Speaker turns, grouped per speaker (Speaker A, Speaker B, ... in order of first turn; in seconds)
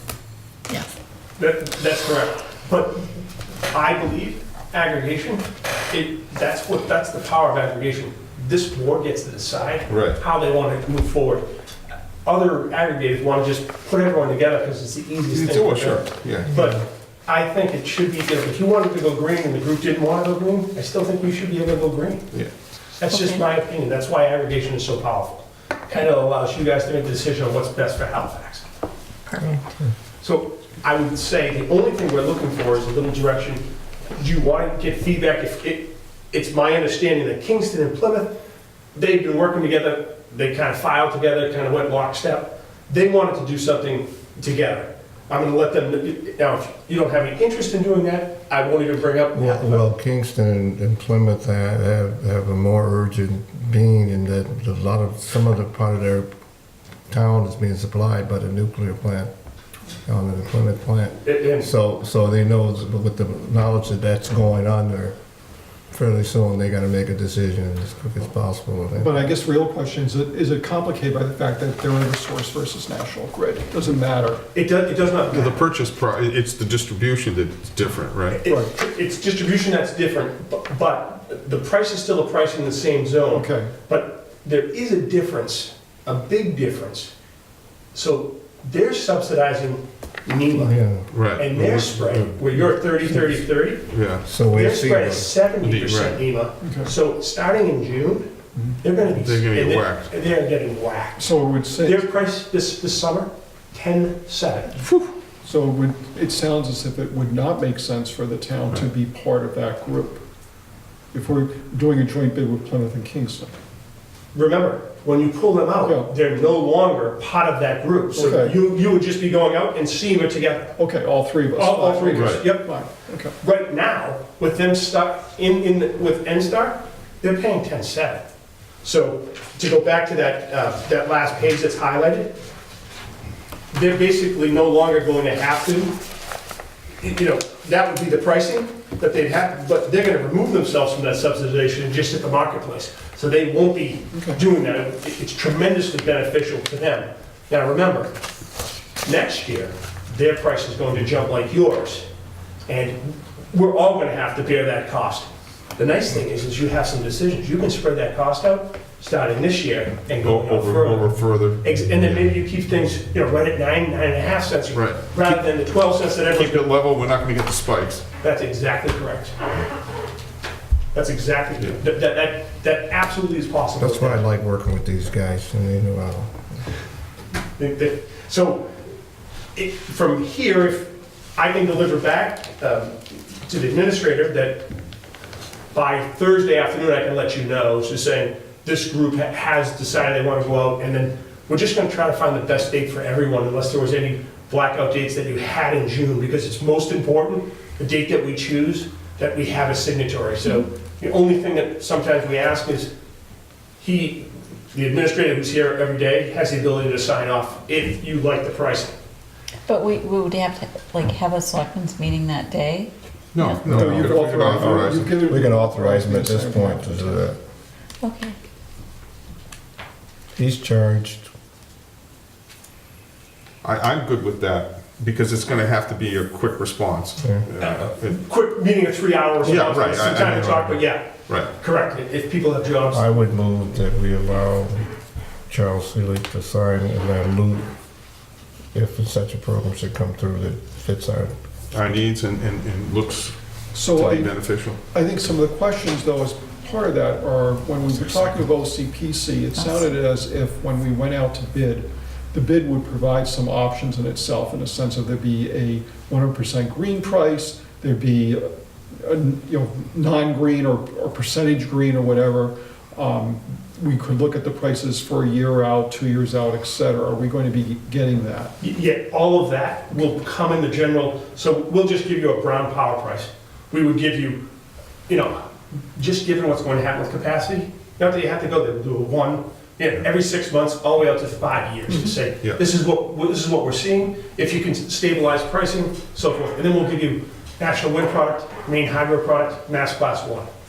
Speaker A: 1.4-3.1, 3.7-11.4, 12.2-22.3, 23.0-28.6, 30.2-33.6, 34.2-38.4, 38.9-49.8, 61.2-61.7, 74.5-75.6, 78.3-87.1, 87.9-90.8, 91.4-93.9, 94.5-98.3, 98.8-104.8, 114.3-120.7, 121.5-122.7, 123.4-128.3, 128.8-132.4, 133.7-136.0, 137.0-148.1, 149.0-152.1, 152.7-166.7, 168.2-169.4, 170.9-174.2, 177.6-178.7, 179.5-184.7, 185.7-202.9, 203.8-209.0, 227.6-233.2, 268.6-274.4, 275.1-290.5
Speaker B: 9.9-10.2, 15.3-16.7, 75.3-78.4, 91.1-92.4, 93.9-94.2, 95.6-96.2, 99.1-100.1, 104.8-105.1, 122.1-122.5, 160.2-162.2, 164.7-165.0, 166.3-168.0, 213.3-215.3, 223.6-228.2, 229.4-231.5, 241.7-244.8, 247.9-248.4
Speaker C: 23.1-23.4, 29.3-29.5, 209.7-213.9, 218.0-218.3, 249.6-249.9
Speaker D: 49.3-56.3, 57.1-59.3, 60.1-65.2, 65.9-69.3, 90.5-91.1, 94.2-95.3, 173.8-176.5, 215.2-217.4, 220.3-221.3, 232.9-234.9, 235.5-237.7, 238.7-241.3
Speaker E: 69.0-74.5, 78.5-78.7, 83.3-83.7, 96.6-96.9, 101.2-102.1, 105.4-110.2, 111.1-113.6, 115.8-116.1, 118.1-118.6, 120.8-123.4, 144.1-144.4, 213.6-217.2, 243.7-244.3, 244.9-268.5